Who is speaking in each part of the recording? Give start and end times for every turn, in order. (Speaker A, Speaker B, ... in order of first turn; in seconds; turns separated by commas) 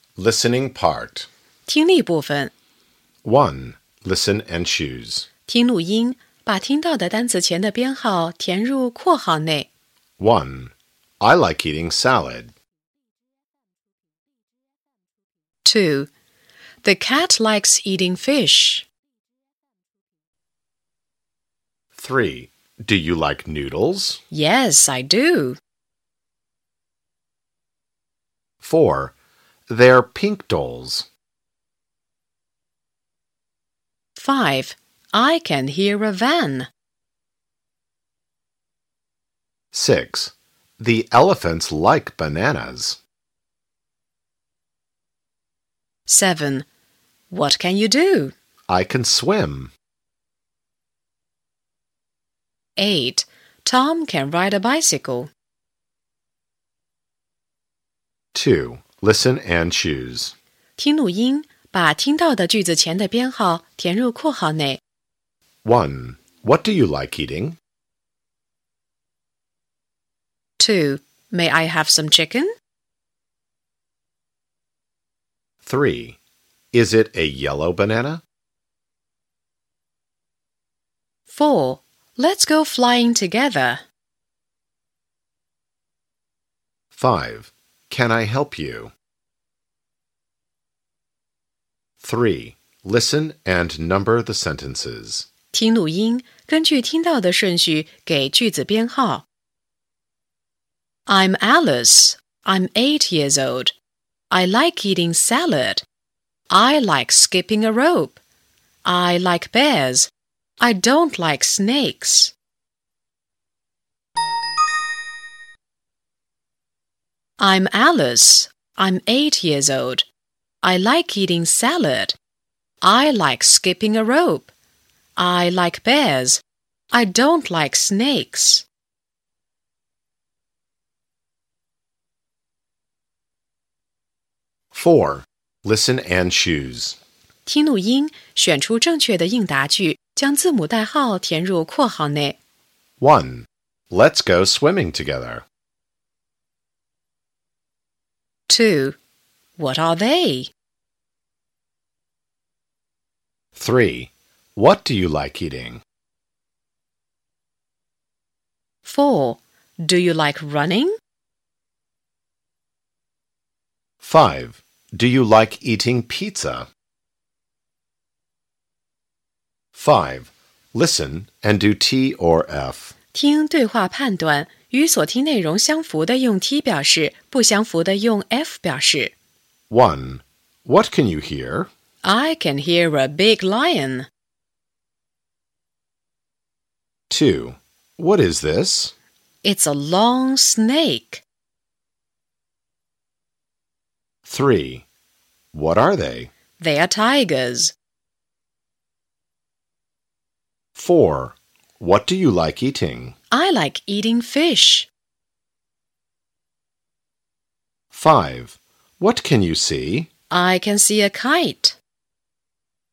Speaker A: 0.2-1.3, Speaker B: 1.7-2.5, Speaker A: 3.2-5.3, Speaker B: 5.5-9.7, Speaker A: 10.2-12.5, Speaker B: 15.7-16.1, Speaker B: 16.8-18.9, Speaker A: 22.0-24.2, Speaker B: 24.3-25.6, Speaker A: 28.6-29.1, Speaker A: 29.7-31.1, Speaker B: 34.2-36.7, Speaker A: 39.7-43.0, Speaker B: 46.1-46.7, Speaker B: 47.3-48.3, Speaker A: 48.7-49.7, Speaker B: 52.8-55.3, Speaker A: 58.3-60.3, Speaker B: 60.8-64.8, Speaker A: 65.6-67.6, Speaker B: 70.6-72.5, Speaker A: 75.6-76.2, Speaker A: 76.7-78.2, Speaker B: 81.3-83.8, Speaker A: 86.9-88.9, Speaker A: 92.0-95.3, Speaker B: 95.5-99.2, Speaker B: 101.1-103.7, Speaker B: 104.3-105.8, Speaker B: 106.5-108.2, Speaker B: 108.8-112.3, Speaker B: 117.4-120.1, Speaker B: 120.6-122.2, Speaker B: 122.8-124.5, Speaker B: 125.2-128.7, Speaker A: 134.7-137.0, Speaker B: 137.5-142.4, Speaker A: 143.0-145.4, Speaker B: 148.5-149.0, Speaker B: 149.6-150.5, Speaker A: 153.6-155.8, Speaker B: 158.8-160.9, Speaker A: 164.0-166.7, Speaker A: 169.7-172.9, Speaker B: 173.1-179.1, Speaker A: 179.7-181.7, Speaker B: 182.0-184.1, Speaker A: 187.1-188.9, Speaker B: 189.4-191.2, Speaker A: 194.3-194.9, Speaker A: 195.5-196.3, Speaker B: 196.6-197.7, Speaker A: 200.8-203.2, Speaker B: 203.3-204.9, Speaker A: 207.9-210.1, Speaker B: 210.3-211.8